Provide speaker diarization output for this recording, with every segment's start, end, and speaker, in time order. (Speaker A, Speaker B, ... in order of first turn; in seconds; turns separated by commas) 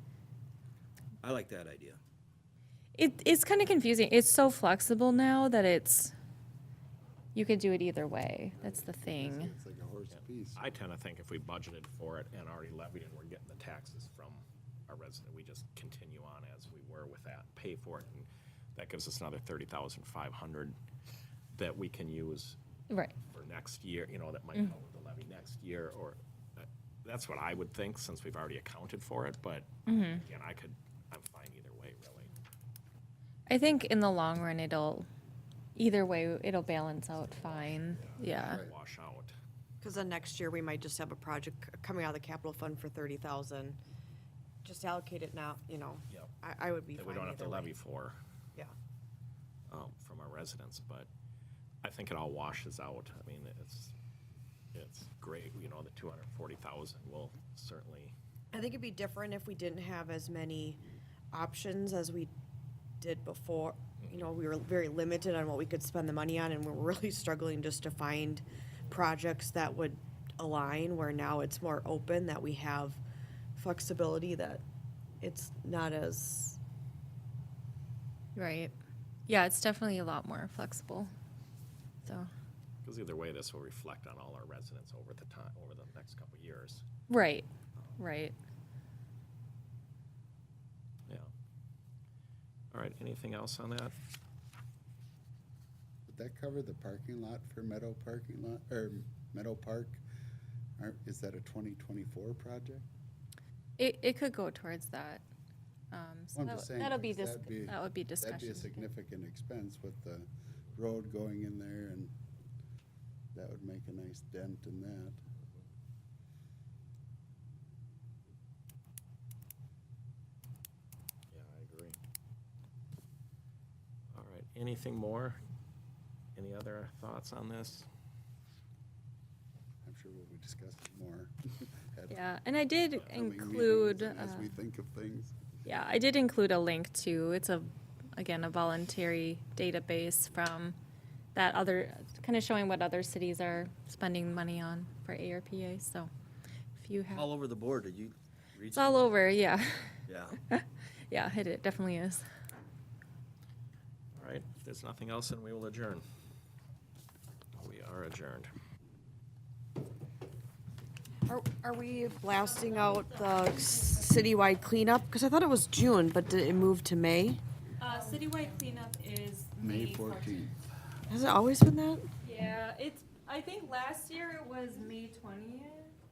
Speaker A: 1.2-2.0, Speaker B: 3.0-6.1, Speaker B: 7.3-9.5, Speaker C: 8.6-10.7, Speaker D: 10.1-20.8, Speaker D: 21.5-22.6, Speaker B: 22.9-23.1, Speaker D: 23.3-32.3, Speaker B: 29.9-30.2, Speaker B: 33.5-35.1, Speaker B: 35.7-38.6, Speaker D: 37.4-39.3, Speaker C: 38.4-38.7, Speaker E: 39.8-43.8, Speaker E: 44.6-47.7, Speaker D: 47.0-48.1, Speaker D: 49.7-51.1, Speaker D: 51.8-54.0, Speaker D: 54.7-58.2, Speaker E: 58.5-62.3, Speaker E: 63.0-73.0, Speaker D: 64.0-64.3, Speaker E: 73.6-74.6, Speaker E: 75.2-76.6, Speaker B: 78.3-78.7, Speaker B: 79.3-81.1, Speaker B: 82.0-82.3, Speaker D: 82.8-86.8, Speaker B: 87.1-88.3, Speaker D: 91.1-91.3, Speaker D: 92.7-94.0, Speaker C: 96.1-100.0, Speaker C: 100.8-102.9, Speaker B: 103.8-105.2, Speaker B: 105.9-108.9, Speaker C: 106.3-112.1, Speaker C: 113.3-115.2, Speaker D: 121.3-122.0, Speaker D: 124.1-125.4, Speaker D: 126.3-127.9, Speaker C: 129.8-132.2, Speaker B: 132.1-134.5, Speaker C: 132.9-135.3, Speaker B: 135.6-140.8, Speaker B: 141.3-146.1, Speaker B: 146.7-147.3, Speaker A: 147.1-149.1, Speaker B: 148.7-152.2, Speaker A: 150.1-150.4, Speaker D: 154.1-156.0, Speaker D: 157.5-158.5, Speaker E: 161.3-167.4, Speaker B: 162.6-164.0, Speaker B: 167.8-170.5, Speaker C: 169.6-170.6, Speaker E: 171.1-172.1, Speaker B: 172.2-175.9